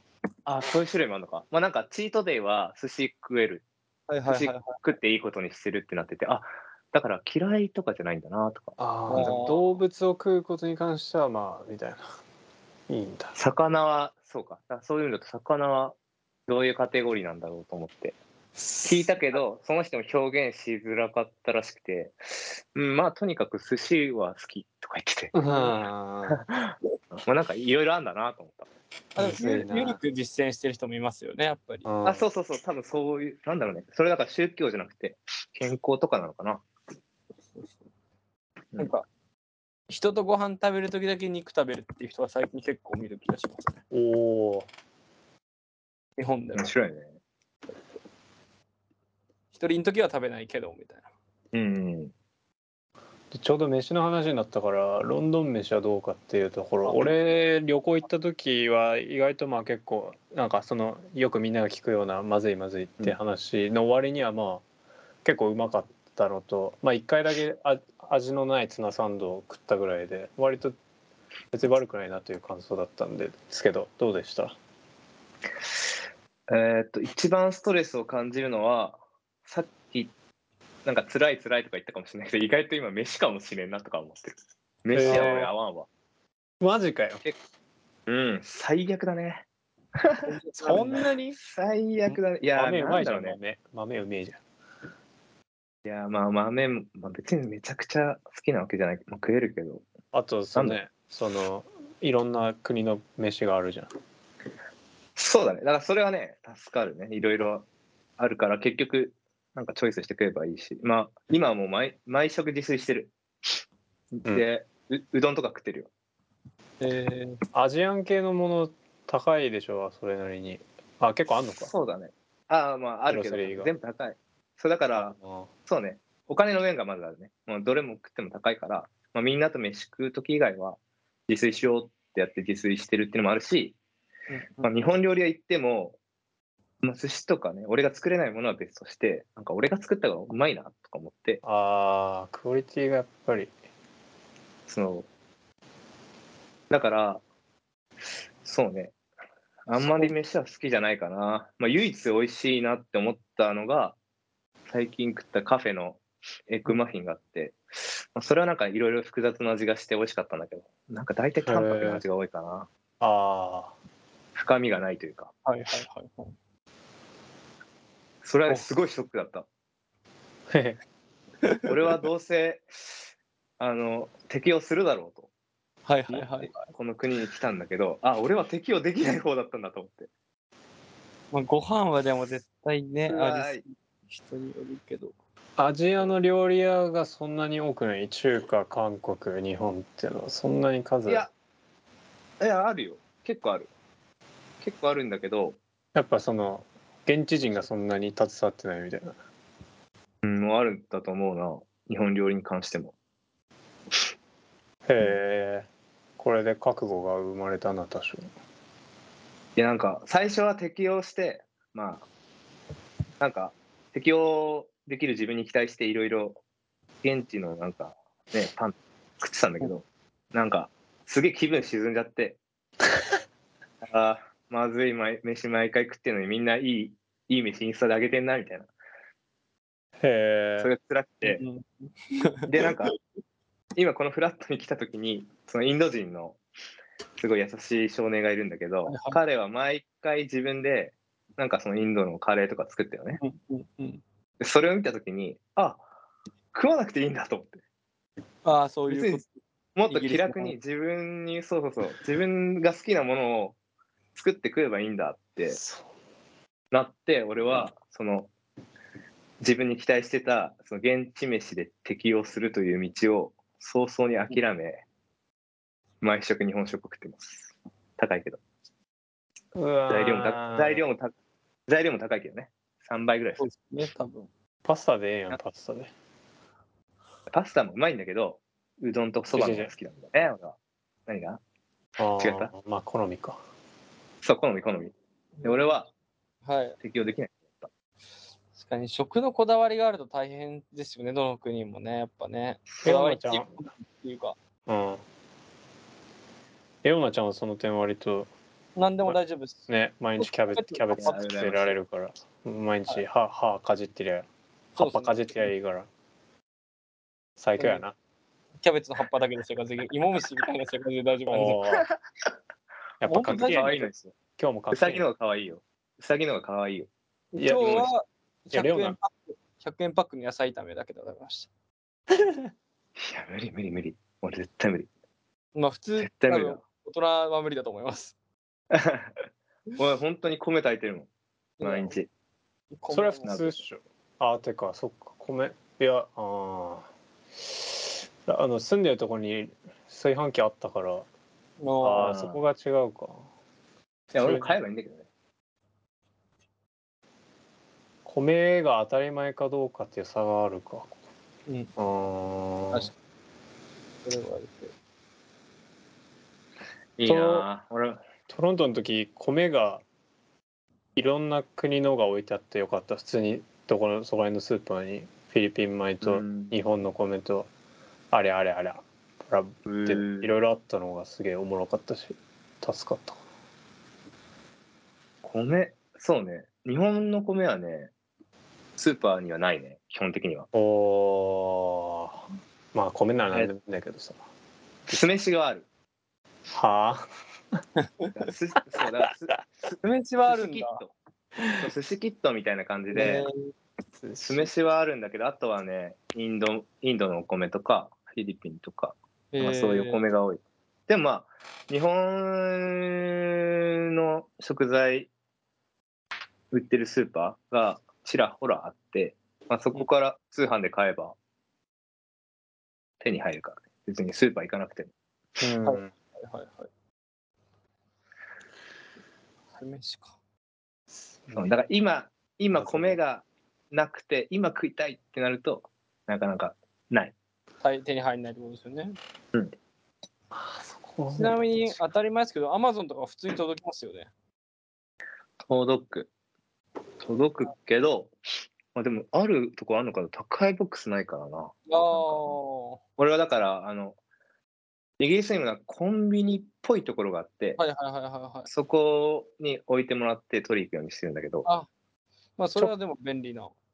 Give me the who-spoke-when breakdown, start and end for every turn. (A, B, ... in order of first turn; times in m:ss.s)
0:00.5-0:03.6 A
0:04.1-0:04.8 B
0:04.3-0:09.6 A
0:08.8-0:12.1 C
0:09.1-0:09.6 B
0:12.9-0:13.4 C
0:13.4-0:16.0 A
0:16.5-0:18.2 A
0:18.6-0:19.1 C
0:18.8-0:25.4 A
0:25.3-0:26.4 C
0:26.3-0:28.7 A
0:29.2-0:31.9 B
0:29.2-0:30.0 C
0:31.8-0:32.2 C
0:32.0-0:36.6 A
0:38.8-0:39.1 B
0:39.9-0:43.8 B
0:43.9-0:44.7 C
0:46.2-0:46.7 B
0:46.5-0:47.2 A
0:49.5-0:51.0 B
0:51.5-0:52.1 A
0:53.3-1:04.6 C
0:56.9-0:57.1 B
1:05.2-1:10.8 C
1:11.5-1:14.6 C
1:16.5-1:20.1 A
1:20.8-1:25.9 A
1:24.9-1:25.5 C
1:26.6-1:27.2 C
1:28.1-1:29.4 A
1:30.0-1:30.3 A
1:30.3-1:31.1 B
1:30.6-1:31.4 C
1:31.4-1:33.4 A
1:32.1-1:34.4 C
1:35.8-1:39.8 A
1:40.1-1:43.9 C
1:45.2-1:47.7 A
1:48.2-1:53.5 A
1:54.2-1:55.9 A
1:56.8-1:57.4 B
1:57.5-2:01.7 C
2:01.6-2:05.2 A
2:03.1-2:03.7 C
2:05.0-2:05.5 C
2:05.7-2:13.8 A
2:14.3-2:14.7 B
2:14.6-2:16.0 A
2:16.8-2:21.4 A
2:21.4-2:23.5 C
2:24.7-2:25.1 A
2:26.7-2:27.2 A
2:28.0-2:29.0 A
2:29.7-2:34.0 A
2:34.7-2:42.7 A
2:41.4-2:42.0 C
2:43.0-2:43.8 C
2:44.4-2:45.3 A
2:45.4-2:46.4 B
2:48.2-2:49.5 A
2:50.5-2:50.8 C
2:51.4-2:51.7 B
2:51.7-2:53.0 A
2:53.6-2:55.3 A
2:55.9-2:56.7 B
2:56.1-3:00.1 A
3:01.3-3:05.1 B
3:03.1-3:03.6 A
3:05.6-3:11.3 C
3:12.4-3:13.7 A
3:14.6-3:15.6 A
3:16.0-3:19.2 C
3:20.2-3:23.0 A
3:24.9-3:28.3 C
3:29.6-3:32.1 A
3:33.2-3:36.4 A
3:37.0-3:42.4 A
3:43.8-3:48.7 A
3:50.0-3:50.7 C
3:50.6-3:51.4 A
3:51.2-3:53.0 B
3:52.5-3:52.9 A
3:53.8-3:56.4 A
3:57.2-4:03.2 A
3:58.9-3:59.2 B
4:03.2-4:04.0 B
4:04.4-4:05.8 A
4:06.5-4:07.6 A
4:08.4-4:09.3 B
4:08.9-4:09.2 A
4:09.8-4:13.6 A
4:09.9-4:10.6 B
4:14.2-4:15.6 A
4:15.5-4:15.9 C
4:16.7-4:18.3 A
4:19.4-4:24.8 A
4:26.0-4:28.4 A
4:29.6-4:30.8 C
4:29.9-4:31.1 A
4:31.7-4:33.4 A
4:33.4-4:34.3 B
4:34.6-4:35.9 C
4:37.3-4:41.4 A
4:39.3-4:39.7 C
4:42.0-4:43.4 C
4:42.2-4:42.5 A
4:44.2-4:45.9 A
4:45.4-4:45.8 B
4:46.4-4:46.8 B
4:46.8-4:47.7 A
4:48.6-4:54.4 B
4:52.8-4:53.5 C
4:54.7-4:55.0 C
4:56.8-4:58.3 C
4:58.8-5:01.1 B
4:59.7-5:04.3 C
5:01.0-5:01.8 A
5:04.8-5:05.4 B
5:04.8-5:05.9 C
5:07.4-5:08.0 C
5:07.6-5:07.8 B
5:08.6-5:11.6 B
5:11.3-5:11.9 C
5:11.5-5:12.0 A
5:13.0-5:13.8 C
5:13.1-5:13.9 B
5:13.3-5:14.1 A
5:14.4-5:15.1 C
5:14.7-5:16.9 A
5:17.4-5:21.5 B
5:17.4-5:17.9 C
5:17.6-5:17.9 A
5:18.5-5:19.0 C
5:23.0-5:24.9 A
5:25.6-5:28.1 B
5:26.0-5:26.6 A
5:28.7-5:29.1 A
5:29.8-5:31.1 A
5:31.6-5:32.0 B
5:31.6-5:32.1 A
5:32.7-5:33.5 B
5:32.9-5:36.9 C
5:33.3-5:33.5 A
5:37.4-5:41.1 C
5:41.6-5:42.2 B
5:41.8-5:43.3 C
5:42.0-5:42.4 A
5:44.1-5:45.1 A
5:44.2-5:44.6 C
5:48.1-5:51.0 C
5:51.5-5:51.7 B
5:51.8-5:52.9 C
5:54.0-5:54.7 B
5:57.0-5:58.0 A
5:57.0-5:57.5 C
5:58.3-5:59.8 C
6:01.0-6:07.5 C
6:06.0-6:06.5 A
6:08.1-6:13.2 C
6:09.7-6:10.3 A
6:15.2-6:17.9 A
6:18.8-6:20.5 A
6:20.5-6:22.2 C
6:22.7-6:24.2 C
6:24.9-6:25.7 A
6:26.5-6:27.0 C
6:28.2-6:30.9 A
6:29.8-6:30.8 B
6:31.6-6:33.3 A
6:32.9-6:33.5 B
6:34.0-6:34.5 C
6:34.2-6:45.1 A
6:39.3-6:40.0 B
6:46.5-6:51.2 A
6:53.0-6:54.9 A
6:55.4-6:55.9 C
6:55.6-6:56.7 B
6:59.6-7:00.2 B
7:01.0-7:01.5 C
7:01.3-7:07.2 A
7:02.5-7:03.0 C
7:07.6-7:09.0 B
7:10.3-7:11.8 C
7:11.1-7:14.1 B
7:15.4-7:16.1 A
7:17.0-7:18.1 A
7:18.7-7:22.4 A
7:21.7-7:22.8 B
7:23.0-7:24.0 A
7:25.0-7:27.6 A
7:27.6-7:28.5 B
7:28.5-7:31.5 A
7:32.4-7:33.5 B